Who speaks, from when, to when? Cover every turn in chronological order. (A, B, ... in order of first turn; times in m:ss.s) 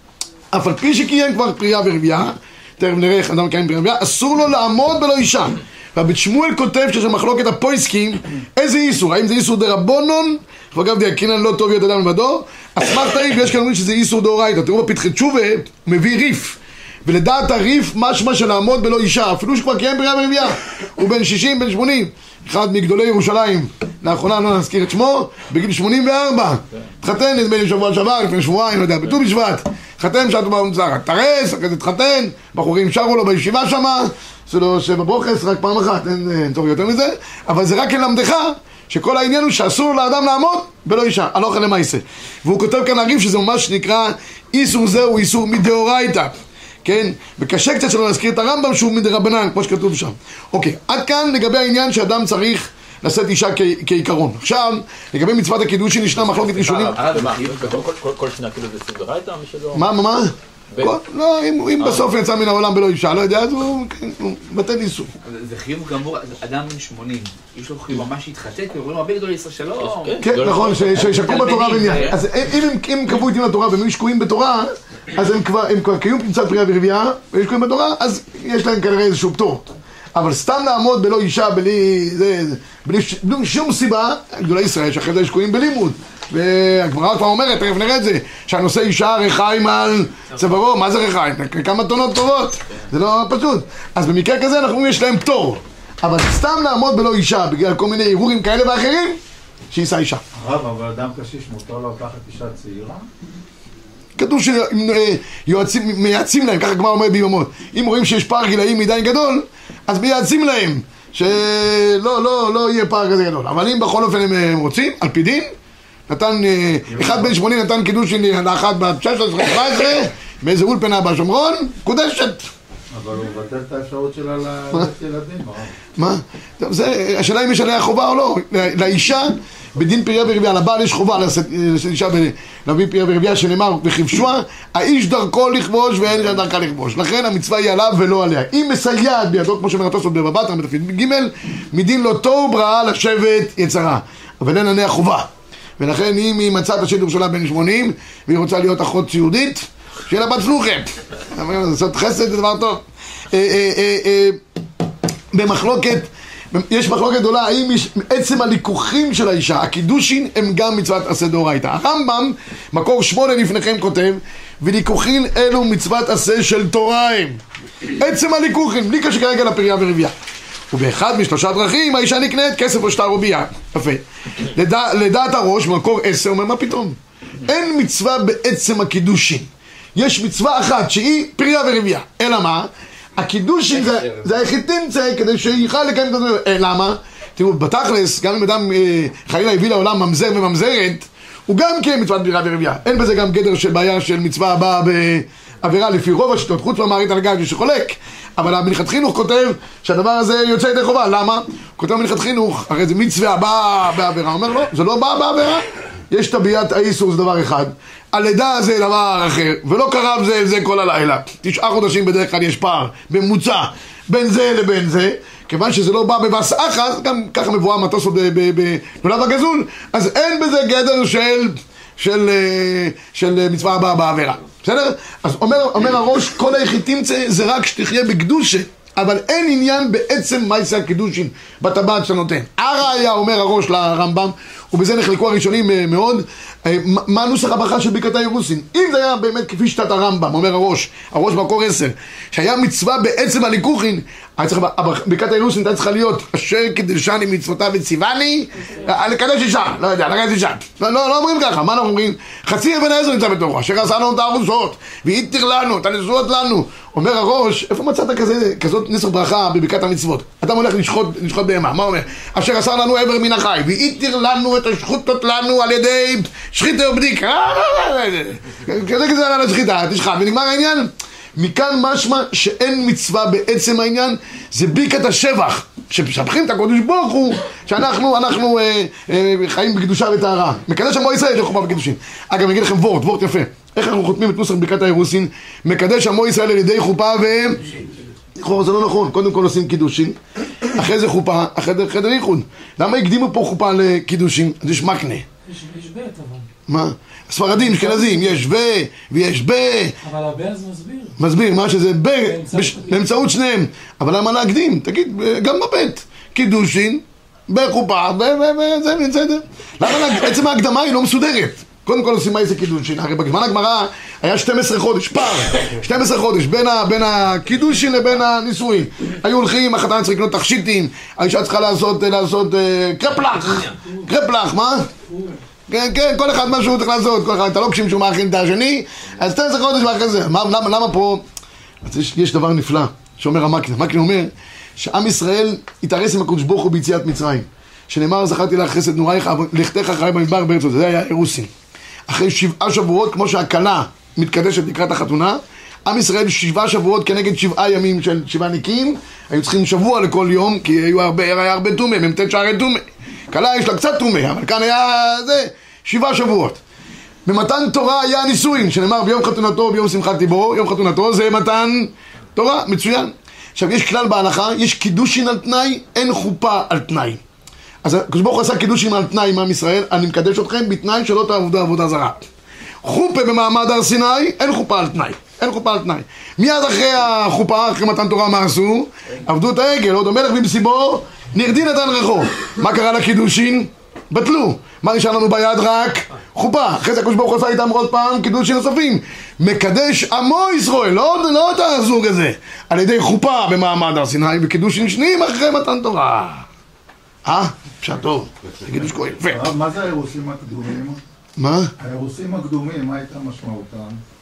0:00.5-0:57.0 A
0:56.2-0:59.9 B
0:56.8-0:57.9 C
0:59.7-1:05.1 A
1:00.7-1:01.0 B
1:01.8-1:02.0 B
1:05.2-1:10.2 C
1:09.8-1:12.1 B
1:10.2-1:39.2 A
1:10.9-1:12.2 C
1:39.7-1:40.2 A
1:40.3-1:43.1 D
1:44.2-1:55.5 A
1:56.1-2:02.4 A
1:56.8-1:57.4 D
2:02.9-2:05.8 D
2:06.0-2:34.4 A
2:35.3-2:47.4 A
2:48.0-2:50.1 A
2:50.7-4:47.7 A
4:08.6-4:09.0 E
4:48.4-4:50.2 A
4:50.7-4:55.2 A
4:55.4-4:56.5 E
4:56.7-4:59.9 A
4:57.5-4:58.4 E
5:00.0-5:01.2 E
5:01.2-5:24.9 A
5:02.2-5:03.1 E
5:23.7-5:24.1 E
5:25.0-5:25.4 E
5:25.7-5:31.2 A
5:31.8-5:41.5 A
5:42.1-5:56.6 A
5:57.2-6:07.2 A
6:07.8-6:12.2 A
6:12.8-6:36.4 A
6:37.2-6:39.5 A
6:39.2-6:41.0 D
6:41.4-6:41.7 A
6:41.8-6:44.0 D